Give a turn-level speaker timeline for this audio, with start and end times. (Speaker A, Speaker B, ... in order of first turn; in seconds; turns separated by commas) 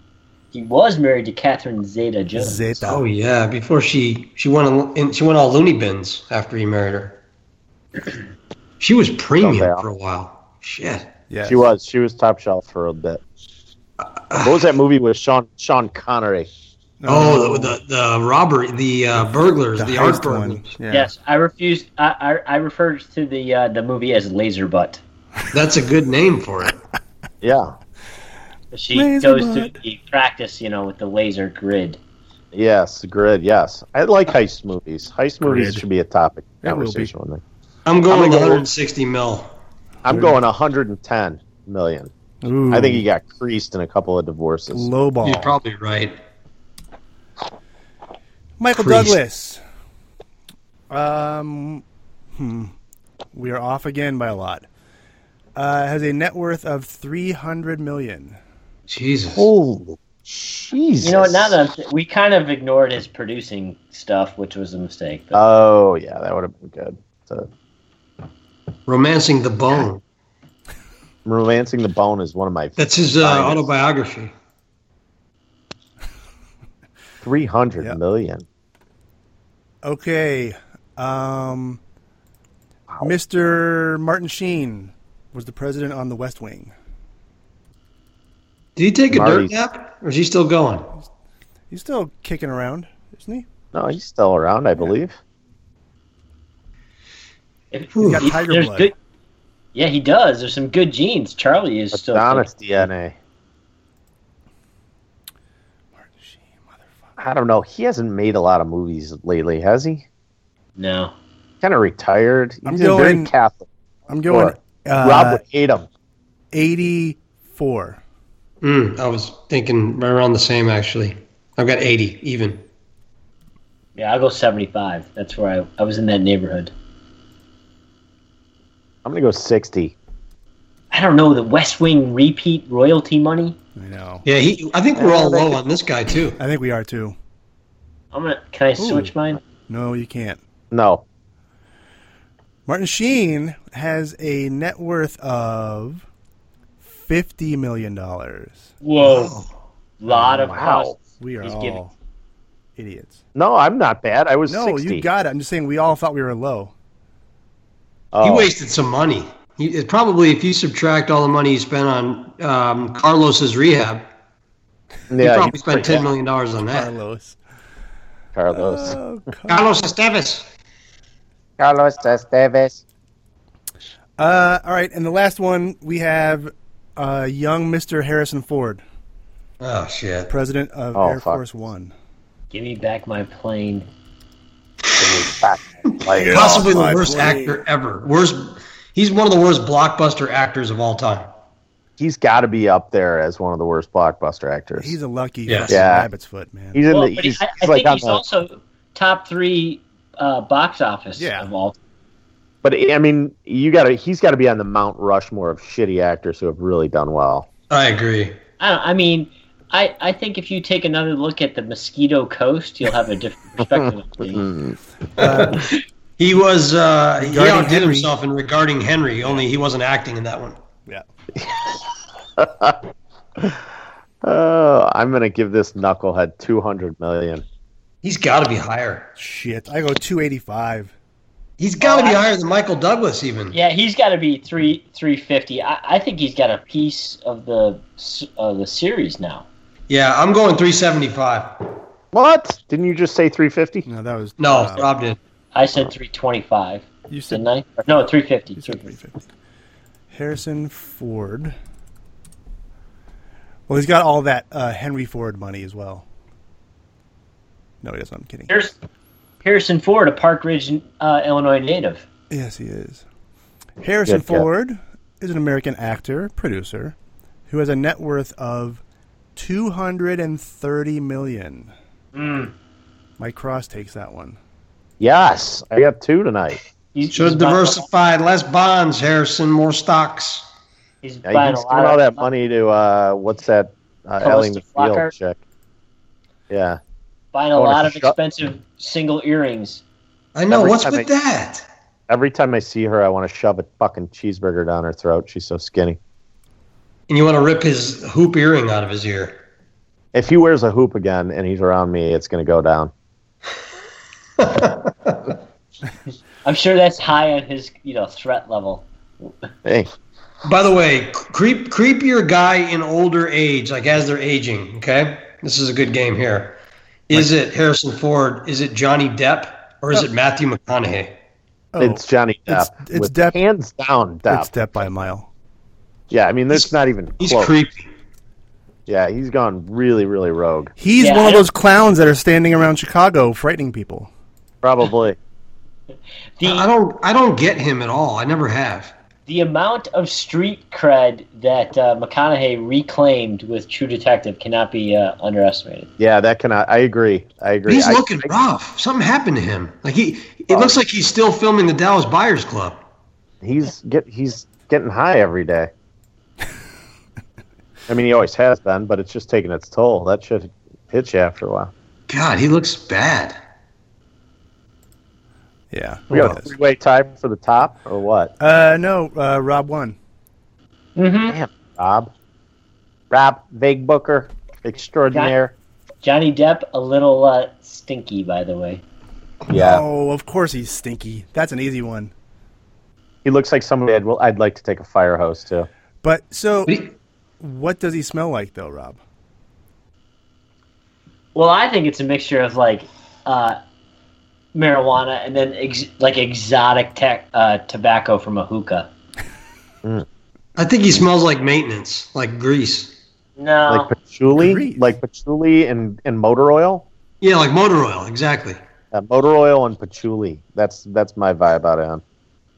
Speaker A: 0.5-2.7, Speaker B: 2.4-3.0, Speaker C: 2.9-7.2, Speaker C: 8.8-11.1, Speaker D: 9.4-9.8, Speaker B: 11.3-11.6, Speaker D: 11.4-13.2, Speaker C: 14.3-14.6, Speaker D: 14.4-16.5, Speaker B: 17.0-17.8, Speaker C: 17.1-20.7, Speaker B: 19.8-21.1, Speaker A: 20.9-25.0, Speaker C: 25.5-26.8, Speaker D: 27.4-27.8, Speaker A: 28.7-32.0, Speaker B: 28.9-29.8, Speaker D: 32.5-37.4, Speaker B: 35.4-35.8, Speaker B: 36.6-37.1, Speaker C: 37.9-39.5, Speaker D: 38.1-38.6, Speaker D: 40.0-42.1, Speaker B: 40.1-40.4, Speaker B: 42.4-43.0, Speaker D: 42.7-44.9, Speaker B: 44.7-45.6, Speaker C: 45.2-46.1, Speaker B: 48.6-49.6, Speaker C: 48.8-49.1, Speaker B: 50.9-51.8, Speaker B: 52.3-52.7, Speaker B: 53.3-54.7, Speaker B: 55.5-58.4, Speaker C: 58.9-59.5, Speaker D: 59.3-61.5, Speaker A: 61.0-65.4, Speaker D: 65.3-67.5, Speaker C: 68.9-70.0, Speaker D: 71.2-73.7, Speaker C: 72.8-74.3, Speaker D: 77.2-78.4, Speaker B: 79.8-81.8, Speaker B: 83.0-86.7, Speaker C: 88.8-90.9, Speaker D: 89.1-89.5, Speaker B: 91.7-93.5, Speaker D: 93.7-95.2, Speaker A: 97.7-98.9, Speaker C: 97.9-98.3, Speaker B: 98.0-98.9, Speaker A: 99.7-102.5, Speaker D: 101.9-103.2, Speaker B: 106.0-107.1, Speaker D: 107.2-110.0, Speaker A: 110.8-111.1, Speaker D: 111.6-113.7, Speaker B: 112.6-113.3, Speaker B: 114.1-115.4, Speaker D: 114.3-115.9, Speaker B: 116.5-118.0, Speaker C: 118.6-122.6, Speaker A: 124.0-126.7, Speaker D: 129.1-129.9, Speaker A: 130.9-133.6, Speaker B: 133.8-134.2, Speaker C: 134.2-136.4, Speaker D: 134.9-135.6, Speaker B: 136.4-137.1, Speaker A: 138.1-139.4, Speaker B: 138.8-139.1, Speaker B: 139.7-140.4, Speaker D: 140.7-141.1, Speaker B: 142.7-146.1, Speaker B: 146.8-148.7, Speaker A: 148.8-149.4, Speaker C: 149.0-149.5, Speaker A: 150.0-151.8, Speaker D: 150.3-151.0, Speaker B: 151.2-151.9, Speaker B: 152.8-153.2, Speaker D: 153.3-155.1, Speaker B: 154.5-156.7, Speaker D: 158.1-158.5, Speaker C: 158.2-164.1, Speaker D: 165.1-166.1, Speaker C: 165.2-166.9, Speaker B: 166.7-167.4, Speaker D: 168.4-169.0, Speaker B: 168.5-169.8, Speaker C: 169.5-170.4, Speaker D: 171.6-172.8, Speaker B: 174.2-178.8, Speaker C: 179.6-180.3, Speaker B: 180.3-181.9, Speaker D: 180.9-181.4, Speaker A: 182.5-183.9, Speaker D: 185.0-186.6, Speaker C: 185.9-191.3, Speaker B: 186.1-187.6, Speaker D: 192.0-194.9, Speaker B: 194.8-196.8, Speaker C: 195.5-195.7, Speaker D: 195.7-196.1, Speaker D: 196.7-198.2, Speaker A: 196.9-201.8, Speaker B: 201.2-201.5, Speaker D: 202.6-207.5, Speaker C: 207.7-208.4, Speaker A: 208.6-214.5, Speaker D: 213.7-214.8, Speaker C: 215.2-220.6, Speaker B: 215.2-215.6, Speaker B: 217.2-218.1, Speaker D: 221.4-221.8, Speaker D: 222.4-222.8, Speaker D: 224.2-227.4, Speaker C: 228.0-229.1, Speaker B: 229.2-230.9, Speaker C: 231.6-233.6, Speaker A: 231.8-232.2, Speaker A: 233.5-239.4, Speaker C: 239.9-241.6, Speaker D: 242.1-243.9, Speaker B: 243.9-244.9, Speaker C: 244.4-245.2, Speaker A: 245.5-248.9, Speaker B: 247.1-247.4, Speaker B: 248.6-249.2, Speaker B: 250.1-251.6, Speaker B: 253.7-256.1, Speaker B: 257.8-258.5, Speaker A: 258.5-258.7, Speaker A: 259.4-262.1, Speaker B: 262.3-263.0, Speaker B: 263.8-267.0, Speaker D: 264.1-264.5, Speaker B: 267.5-268.8, Speaker B: 269.4-271.7, Speaker A: 272.1-272.5, Speaker B: 273.2-274.4, Speaker D: 275.0-276.6, Speaker A: 276.9-277.9, Speaker C: 277.1-280.4, Speaker A: 281.0-282.2, Speaker D: 281.3-285.4, Speaker A: 284.2-285.1, Speaker D: 286.5-286.8, Speaker A: 287.3-289.8, Speaker D: 287.6-288.1, Speaker C: 290.3-291.6, Speaker D: 290.5-291.1, Speaker D: 292.1-296.0, Speaker C: 297.1-299.4, Speaker D: 300.1-302.9, Speaker C: 304.4-305.3, Speaker A: 306.4-309.3, Speaker D: 309.6-309.9, Speaker C: 310.4-316.6, Speaker C: 317.1-321.1, Speaker B: 321.7-323.4, Speaker D: 321.8-324.8, Speaker B: 324.3-325.3, Speaker D: 326.1-327.5, Speaker C: 326.5-327.9, Speaker D: 328.9-330.7, Speaker B: 330.8-334.1, Speaker A: 331.0-331.4, Speaker D: 334.6-335.2, Speaker A: 336.4-336.7, Speaker C: 336.4-338.9, Speaker A: 339.3-345.9, Speaker D: 346.0-348.3, Speaker C: 347.7-352.8, Speaker D: 350.5-350.8, Speaker D: 353.4-355.7, Speaker D: 357.9-361.7, Speaker C: 362.1-363.4, Speaker B: 365.7-366.5, Speaker D: 366.1-368.3, Speaker B: 368.4-369.9, Speaker A: 370.9-371.4, Speaker D: 371.3-372.1, Speaker D: 373.1-375.6, Speaker A: 376.0-378.8, Speaker D: 379.5-379.8, Speaker B: 379.5-382.1, Speaker D: 383.2-385.7, Speaker B: 386.0-386.7, Speaker C: 386.7-386.9, Speaker B: 387.4-389.0, Speaker A: 391.3-393.6, Speaker A: 394.5-398.9, Speaker C: 400.6-402.9, Speaker A: 403.4-403.9, Speaker D: 403.7-406.9, Speaker B: 404.3-404.9, Speaker C: 407.2-408.6, Speaker D: 408.9-412.0